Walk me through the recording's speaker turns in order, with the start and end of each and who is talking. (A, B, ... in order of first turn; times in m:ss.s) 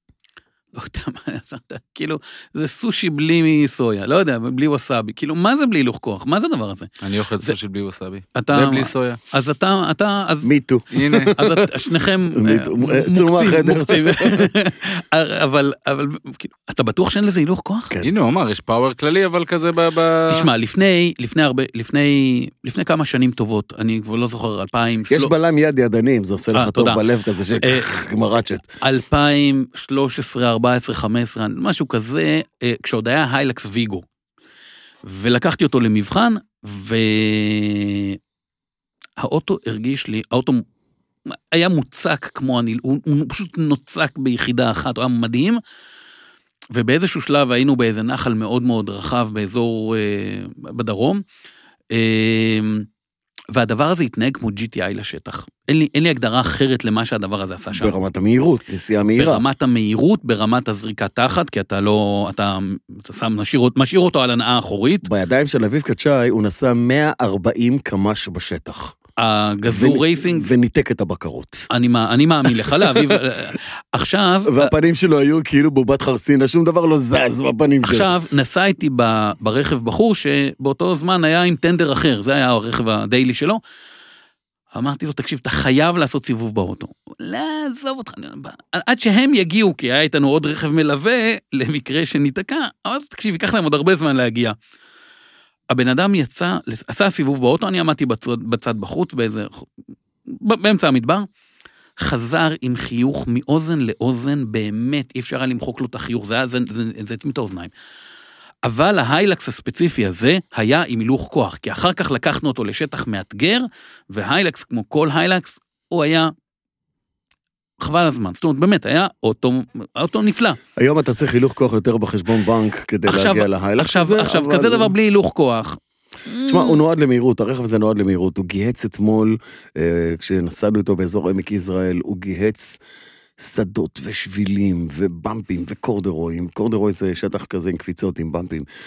0:00.7-0:07.6 A
0:07.0-0:09.2 B
0:08.4-0:10.5 A
0:10.4-0:11.7 C
0:10.9-0:11.3 B
0:11.3-0:17.9 A
0:12.3-0:14.5 C
0:18.0-0:20.5 B
0:20.3-0:25.3 A
0:25.1-0:28.7 C
0:26.5-0:27.0 A
0:27.6-0:27.9 A
0:28.8-0:34.0 A
0:35.0-0:38.2 A
0:39.2-0:40.6 A
0:41.3-0:45.6 A
0:46.7-0:51.2 A
0:51.9-0:52.9 A
0:53.5-0:58.0 A
0:57.7-0:59.4 C
0:59.2-1:05.0 A
1:05.0-1:09.0 C
1:09.2-1:10.5 A
1:09.7-1:11.7 C
1:11.7-1:14.7 A
1:12.5-1:13.2 C
1:14.5-1:18.1 C
1:17.8-1:23.6 A
1:24.7-1:34.6 A
1:35.7-1:39.7 A
1:40.3-1:41.3 A
1:42.0-1:47.7 A
1:48.6-1:56.3 A
1:57.8-2:00.6 A
2:00.8-2:04.9 C
2:03.1-2:06.8 A
2:06.5-2:12.8 C
2:13.4-2:18.7 C